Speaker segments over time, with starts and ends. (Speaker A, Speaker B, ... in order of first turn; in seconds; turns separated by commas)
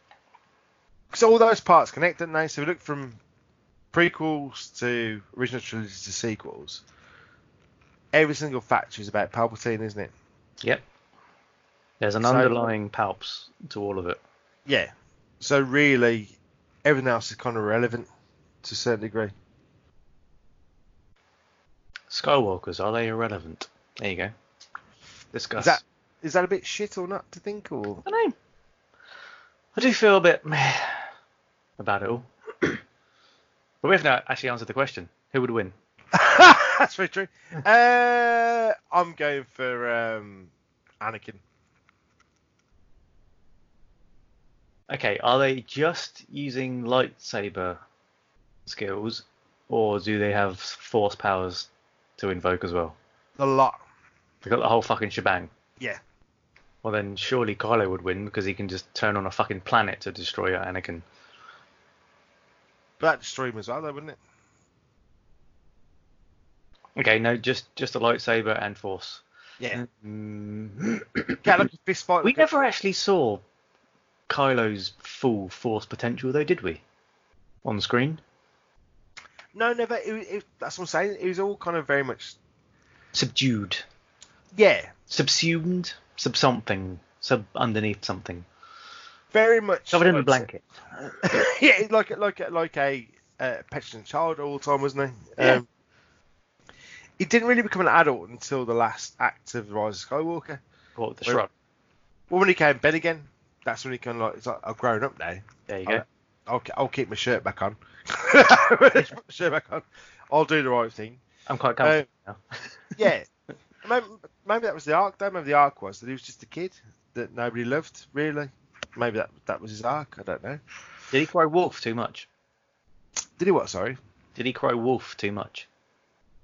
Speaker A: 1.1-3.2, Speaker A: 3.9-6.8, Speaker A: 8.1-10.1, Speaker B: 12.0-14.2, Speaker A: 12.2-12.6, Speaker A: 14.7-18.1, Speaker A: 18.6-19.3, Speaker B: 22.1-24.3, Speaker B: 25.3-25.8, Speaker A: 25.6-28.0, Speaker B: 28.1-28.3, Speaker B: 29.8-31.0, Speaker B: 31.8-32.8, Speaker B: 33.8-35.7, Speaker A: 36.1-41.4, Speaker B: 44.9-47.8, Speaker B: 48.7-53.0, Speaker A: 53.4-53.8, Speaker B: 54.4-55.5, Speaker B: 56.8-61.0, Speaker A: 63.0-64.2, Speaker B: 67.0-71.4, Speaker A: 71.4-72.5, Speaker B: 72.2-73.4, Speaker B: 74.3-76.8, Speaker B: 77.6-78.2, Speaker A: 79.5-82.4, Speaker B: 83.1-83.8, Speaker A: 84.5-84.9, Speaker B: 85.1-88.5, Speaker A: 89.3-90.5, Speaker B: 89.9-90.7, Speaker A: 91.2-95.7, Speaker A: 97.2-100.6, Speaker B: 101.0-101.5, Speaker A: 102.3-111.2, Speaker B: 105.7-106.0, Speaker B: 111.5-112.8, Speaker A: 111.8-112.1, Speaker A: 113.0-113.3, Speaker A: 113.8-120.6, Speaker B: 121.1-122.3, Speaker A: 123.4-124.0, Speaker B: 124.4-125.7